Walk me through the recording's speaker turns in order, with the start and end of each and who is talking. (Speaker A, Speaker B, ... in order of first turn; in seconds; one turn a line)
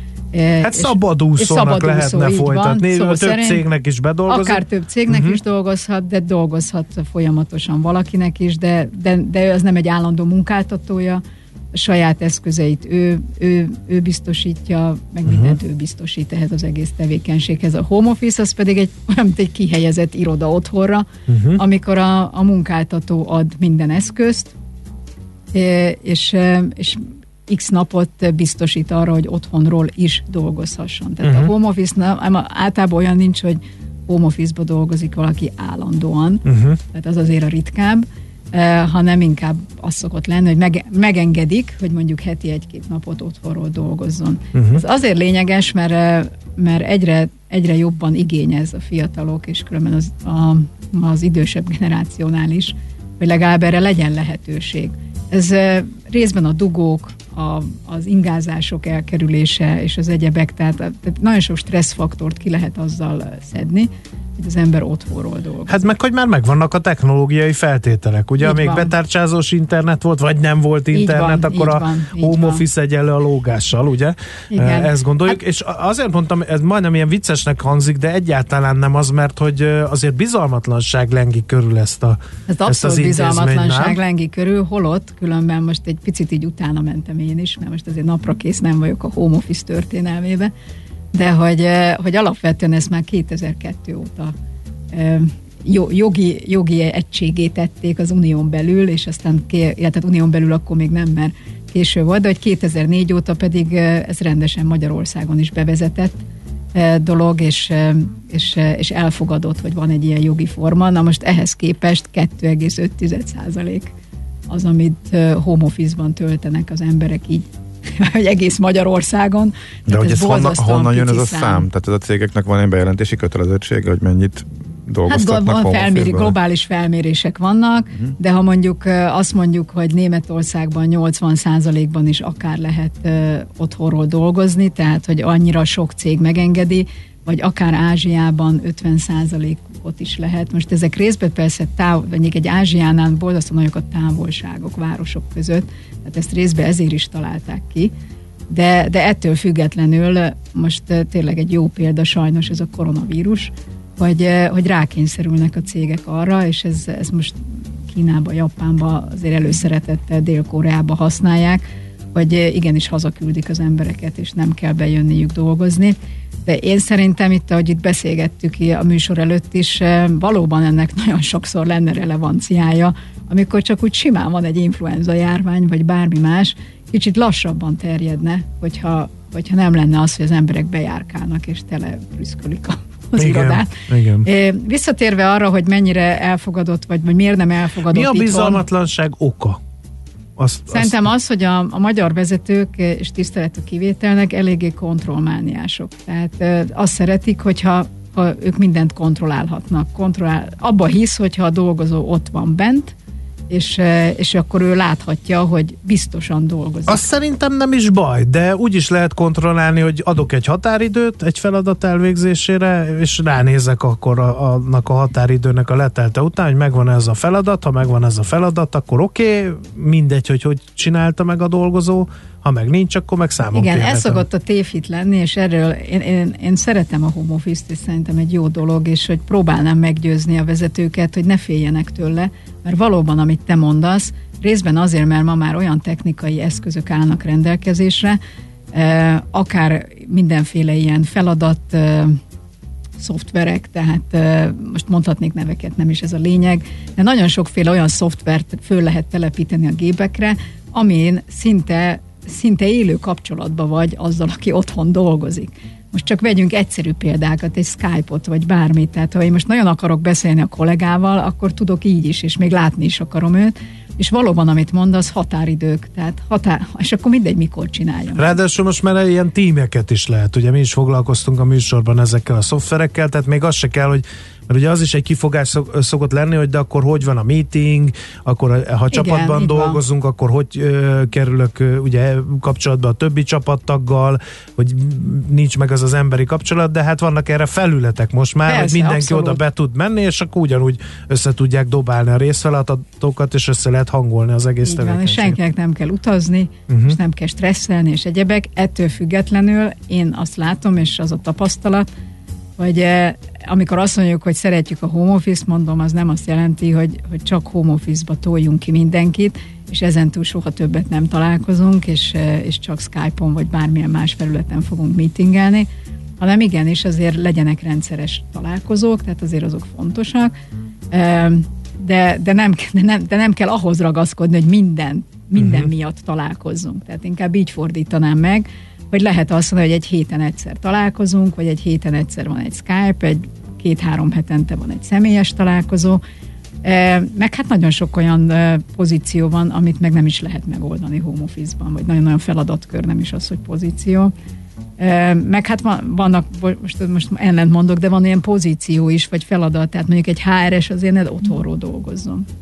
Speaker A: 0.3-3.6
Speaker B: 0.6-5.4
Speaker A: 4.3-11.2
Speaker A: 11.7-24.5
Speaker B: 15.2-15.6
Speaker B: 21.3-21.6
Speaker A: 25.5-65.8
Speaker B: 31.2-31.5
Speaker B: 36.5-36.8
Speaker B: 44.5-44.8
Speaker B: 65.7-84.0
Speaker A: 68.4-68.9
Speaker A: 70.9-72.6
Speaker A: 74.5-75.4
Speaker A: 82.5-90.5
Speaker A: 91.1-94.3
Speaker A: 94.9-106.2
Speaker A: 106.7-113.9
Speaker A: 114.5-121.7
Speaker C: 119.9-126.3
Speaker A: 125.1-147.9
Speaker A: 148.5-161.6
Speaker A: 162.1-183.7
Speaker B: 183.2-184.2
Speaker A: 184.2-188.6
Speaker B: 187.9-189.6
Speaker B: 190.4-191.0
Speaker A: 190.7-202.9
Speaker A: 203.5-207.0
Speaker B: 206.9-224.2
Speaker A: 223.5-238.2
Speaker A: 238.7-242.2
Speaker A: 243.0-268.4
Speaker B: 268.2-295.4
Speaker A: 278.9-279.8
Speaker A: 288.5-289.4
Speaker A: 294.6-301.9
Speaker B: 296.7-297.0
Speaker A: 302.6-315.7
Speaker A: 316.2-320.3
Speaker A: 320.9-336.0
Speaker B: 325.4-325.7
Speaker A: 336.6-344.1
Speaker A: 344.8-352.2